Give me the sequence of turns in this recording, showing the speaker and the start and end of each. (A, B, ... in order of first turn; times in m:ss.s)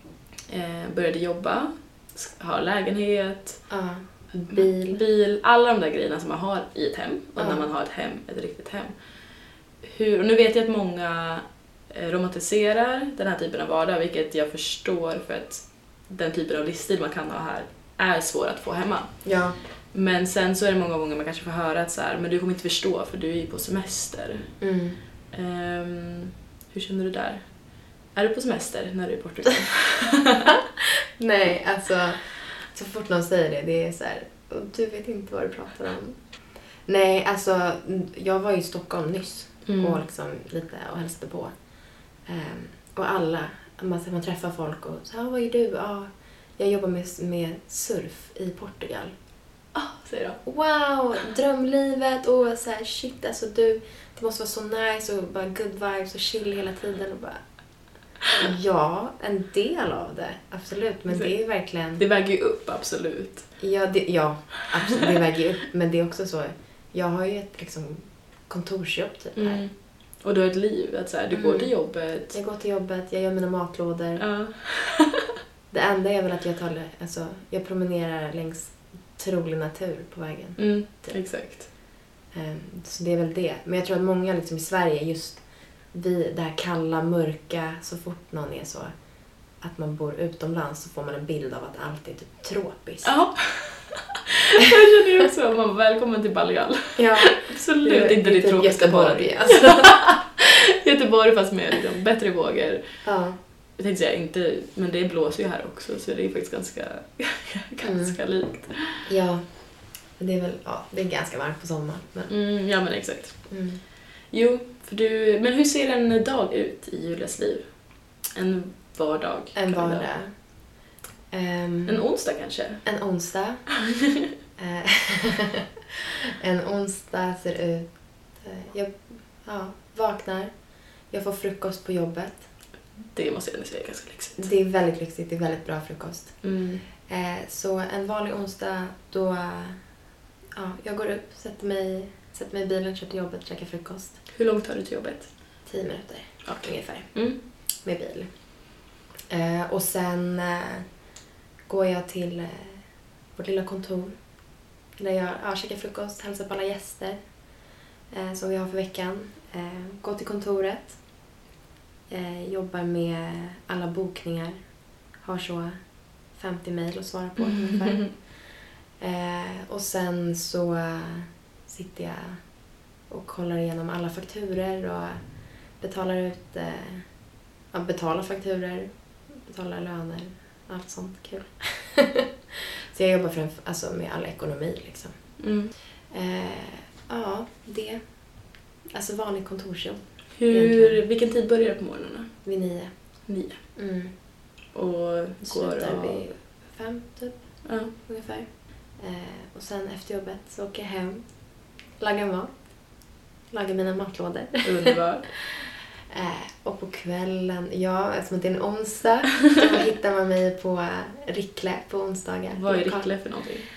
0:00.5-0:03.7 A
0:03.7-0:05.0 B
0:04.5-0:09.0 A
0:07.4-0:07.7 B
0:09.8-0:19.3 A
0:19.2-0:19.6 B
0:19.9-0:24.6 A
0:24.6-0:25.0 B
0:25.3-0:27.5 A
0:28.1-0:30.6 A
0:30.8-0:36.2 B
0:36.9-0:41.5 B
0:39.7-0:40.0 A
0:42.3-0:49.1 B
0:49.7-0:50.4 A
0:50.4-0:57.4 B
0:58.3-1:02.0 B
1:02.0-1:03.5 A
1:03.6-1:09.6 B
1:09.4-1:12.4 A
1:11.3-1:14.3 B
1:14.2-1:15.2 A
1:15.7-1:21.2 B
1:20.6-1:21.7 A
1:22.3-1:28.9 B
1:29.6-1:33.2 B
1:33.0-1:42.9 A
1:37.0-1:40.0 B
1:43.0-1:43.4 B
1:43.8-1:49.1 A
1:47.8-1:48.2 B
1:49.0-1:49.5 B
1:50.2-1:52.3 B
1:52.3-1:53.5 A
1:53.5-1:53.8 B
1:54.3-2:00.1 A
1:59.6-2:00.3 B
2:01.3-2:02.1 B
2:01.9-2:02.9 A
2:02.8-2:03.7 B
2:04.6-2:10.6 B
2:11.1-2:12.4 B
2:13.1-2:14.5 A
2:14.4-2:19.8 B
2:16.4-2:16.8 A
2:20.6-2:24.2 B
2:24.3-2:25.3 A
2:25.6-2:28.3 B
2:26.4-2:27.4 A
2:29.3-2:30.9 B
2:31.7-2:32.8 B
2:33.4-2:34.1 B
2:35.0-2:37.2 B
2:38.1-2:41.0 B
2:42.1-2:44.6 B
2:45.2-2:45.8 B
2:46.4-2:48.3 B
2:47.4-2:48.0 A
2:49.0-2:52.4 B
2:53.1-2:55.2 B
2:55.8-2:57.0 B
2:57.7-3:05.3 B
3:05.4-3:05.7 A
3:06.1-3:08.0 B
3:08.9-3:11.0 B
3:10.4-3:12.3 A
3:12.4-3:12.9 B
3:13.3-3:13.6 A
3:13.8-3:14.1 B
3:14.7-3:16.2 A
3:15.4-3:21.4 B
3:17.6-3:17.9 A
3:22.0-3:22.6 B
3:23.5-3:33.2 B
3:24.6-3:25.3 A
3:32.5-3:33.7 A